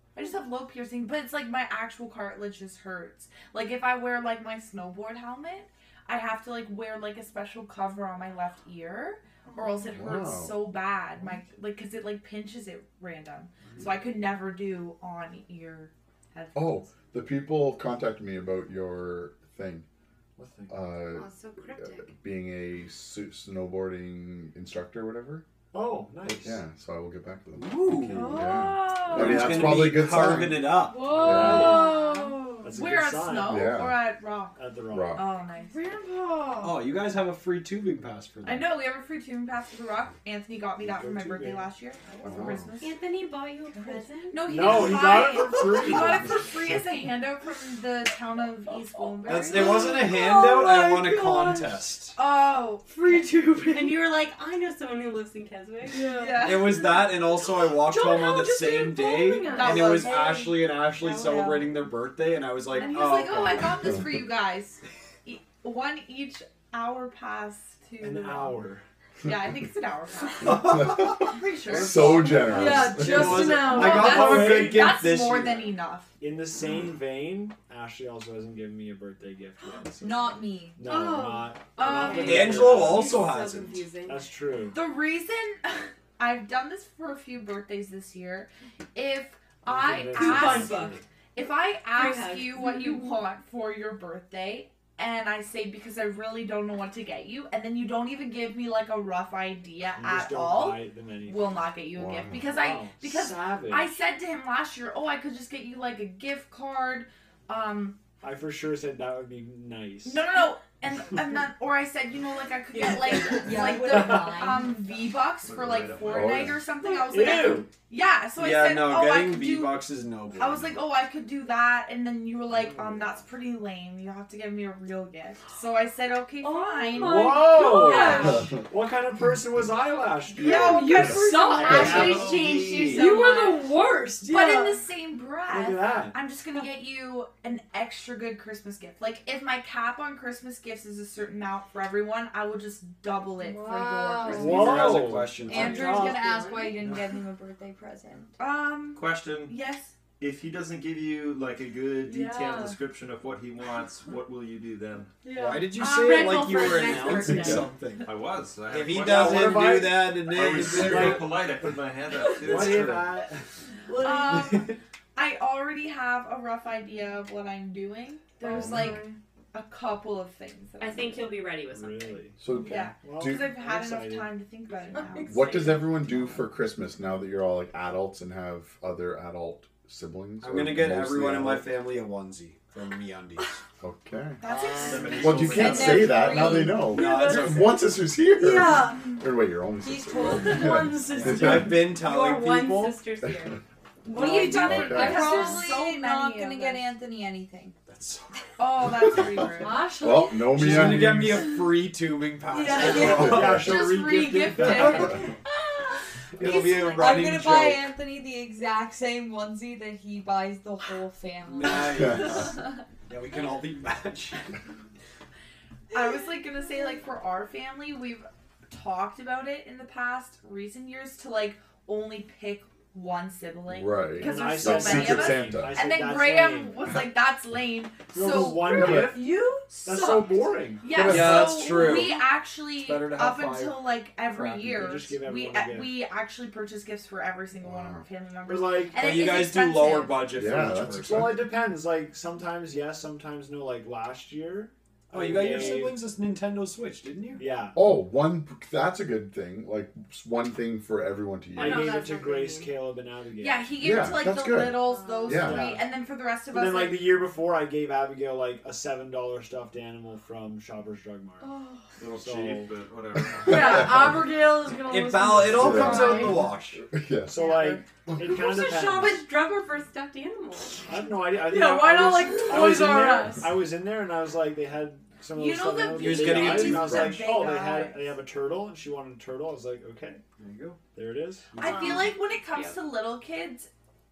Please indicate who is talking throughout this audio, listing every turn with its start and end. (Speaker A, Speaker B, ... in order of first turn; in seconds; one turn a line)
Speaker A: 0.1-16.9
Speaker B: 9.9-10.6
Speaker B: 16.5-19.8
Speaker C: 20.4-20.8
Speaker B: 20.7-21.3
Speaker D: 21.1-22.1
Speaker B: 21.8-25.4
Speaker C: 25.7-26.6
Speaker B: 26.2-31.8
Speaker E: 27.6-28.4
Speaker C: 27.9-28.3
Speaker F: 28.1-29.2
Speaker A: 28.5-29.5
Speaker E: 29.0-31.2
Speaker F: 30.8-32.7
Speaker C: 31.1-31.9
Speaker A: 31.3-34.6
Speaker C: 32.6-33.7
Speaker B: 33.5-34.0
Speaker C: 34.5-35.2
Speaker B: 34.9-35.2
Speaker A: 35.1-35.8
Speaker F: 35.7-36.8
Speaker E: 36.6-38.7
Speaker A: 38.4-42.9
Speaker C: 40.8-41.7
Speaker B: 42.2-42.7
Speaker D: 42.8-45.2
Speaker A: 44.3-49.9
Speaker C: 44.4-46.5
Speaker F: 49.2-51.8
Speaker E: 49.2-52.1
Speaker A: 52.1-52.8
Speaker F: 52.9-54.0
Speaker D: 53.7-56.1
Speaker F: 55.9-56.9
Speaker A: 56.1-57.1
Speaker E: 56.4-63.7
Speaker F: 57.6-60.1
Speaker A: 59.5-60.7
Speaker G: 60.9-61.7
Speaker A: 62.7-68.6
Speaker C: 68.0-68.8
Speaker A: 69.2-72.8
Speaker B: 70.5-73.5
Speaker C: 71.7-74.8
Speaker F: 72.5-74.8
Speaker E: 72.8-75.7
Speaker A: 73.6-76.1
Speaker C: 76.2-83.2
Speaker G: 80.0-80.8
Speaker D: 80.8-84.2
Speaker A: 81.8-82.7
Speaker E: 82.2-83.8
Speaker C: 84.0-84.8
Speaker A: 84.7-108.0
Speaker C: 89.6-91.0
Speaker D: 90.1-91.0
Speaker D: 91.9-93.0
Speaker C: 99.9-101.7
Speaker B: 101.9-102.5
Speaker C: 102.5-104.0
Speaker C: 108.2-110.3
Speaker A: 110.0-119.8
Speaker G: 112.7-114.8
Speaker C: 113.9-114.4
Speaker H: 115.4-116.6
Speaker B: 116.1-116.6
Speaker C: 116.9-117.7
Speaker E: 118.3-120.8
Speaker A: 120.4-128.4
Speaker C: 122.5-123.0
Speaker F: 126.4-128.5
Speaker C: 126.9-132.5
Speaker A: 130.3-133.7
Speaker F: 130.4-134.8
Speaker H: 131.6-133.1
Speaker A: 134.2-145.2
Speaker C: 135.5-136.2
Speaker F: 143.4-144.8
Speaker C: 144.2-146.4
Speaker E: 144.4-146.1
Speaker G: 145.4-148.3
Speaker D: 145.5-146.9
Speaker A: 148.4-149.9
Speaker H: 148.9-149.5
Speaker H: 150.2-155.1
Speaker F: 152.0-152.8
Speaker F: 155.2-155.8
Speaker E: 155.3-161.3
Speaker D: 155.8-157.7
Speaker H: 158.0-163.0
Speaker C: 158.9-161.4
Speaker E: 162.3-163.2
Speaker C: 162.4-163.4
Speaker A: 163.9-171.4
Speaker F: 168.4-169.2
Speaker D: 170.8-172.3
Speaker C: 171.7-174.4
Speaker B: 172.4-173.5
Speaker A: 172.6-175.8
Speaker B: 175.2-181.7
Speaker E: 180.4-183.5
Speaker B: 183.8-184.4
Speaker A: 184.4-186.0
Speaker C: 184.5-185.2
Speaker H: 184.7-186.2
Speaker B: 185.2-191.8
Speaker G: 185.4-186.9
Speaker E: 186.4-187.8
Speaker F: 186.6-187.8
Speaker F: 188.3-189.0
Speaker G: 189.8-190.9
Speaker F: 190.2-191.8
Speaker E: 191.2-193.0
Speaker D: 191.9-193.6
Speaker F: 194.0-195.6
Speaker G: 194.1-197.8
Speaker A: 194.1-196.9
Speaker B: 194.5-195.3
Speaker E: 197.9-198.4
Speaker A: 198.6-199.8
Speaker F: 199.6-200.7
Speaker B: 200.0-201.5
Speaker E: 200.5-203.8
Speaker F: 202.5-203.3
Speaker B: 203.1-203.5
Speaker C: 203.1-205.3
Speaker A: 203.5-205.3
Speaker E: 206.4-207.9
Speaker B: 206.4-206.7
Speaker G: 206.4-212.3
Speaker A: 206.5-207.1
Speaker E: 211.4-214.4
Speaker B: 212.0-212.4
Speaker A: 215.9-229.1
Speaker B: 223.7-225.8
Speaker C: 224.2-226.9
Speaker C: 228.1-231.4
Speaker F: 228.3-230.5
Speaker B: 228.8-229.2
Speaker A: 230.8-240.4
Speaker E: 230.9-233.8
Speaker B: 231.0-231.3
Speaker E: 234.3-234.8
Speaker C: 234.7-236.0
Speaker B: 237.6-238.0
Speaker C: 238.4-239.1
Speaker E: 238.9-241.4
Speaker B: 240.3-241.4
Speaker C: 240.9-246.1
Speaker E: 245.1-247.4
Speaker C: 247.3-247.8
Speaker B: 247.7-252.0
Speaker C: 251.5-253.8
Speaker D: 251.5-252.9
Speaker A: 253.4-257.1
Speaker B: 253.8-255.8
Speaker D: 255.0-255.4
Speaker C: 255.3-255.8
Speaker C: 256.5-261.5
Speaker H: 262.0-263.9
Speaker C: 262.1-262.7
Speaker F: 263.4-266.4
Speaker B: 263.5-264.2
Speaker E: 264.8-266.8
Speaker B: 265.4-267.4
Speaker A: 266.0-266.3
Speaker C: 267.3-269.3
Speaker F: 267.4-267.8
Speaker D: 268.2-270.8
Speaker C: 270.8-280.2
Speaker F: 271.4-273.6
Speaker A: 275.3-278.1
Speaker E: 275.9-277.3
Speaker E: 280.4-280.8
Speaker C: 280.9-281.6
Speaker E: 281.5-282.1
Speaker A: 281.6-283.7
Speaker D: 281.6-282.8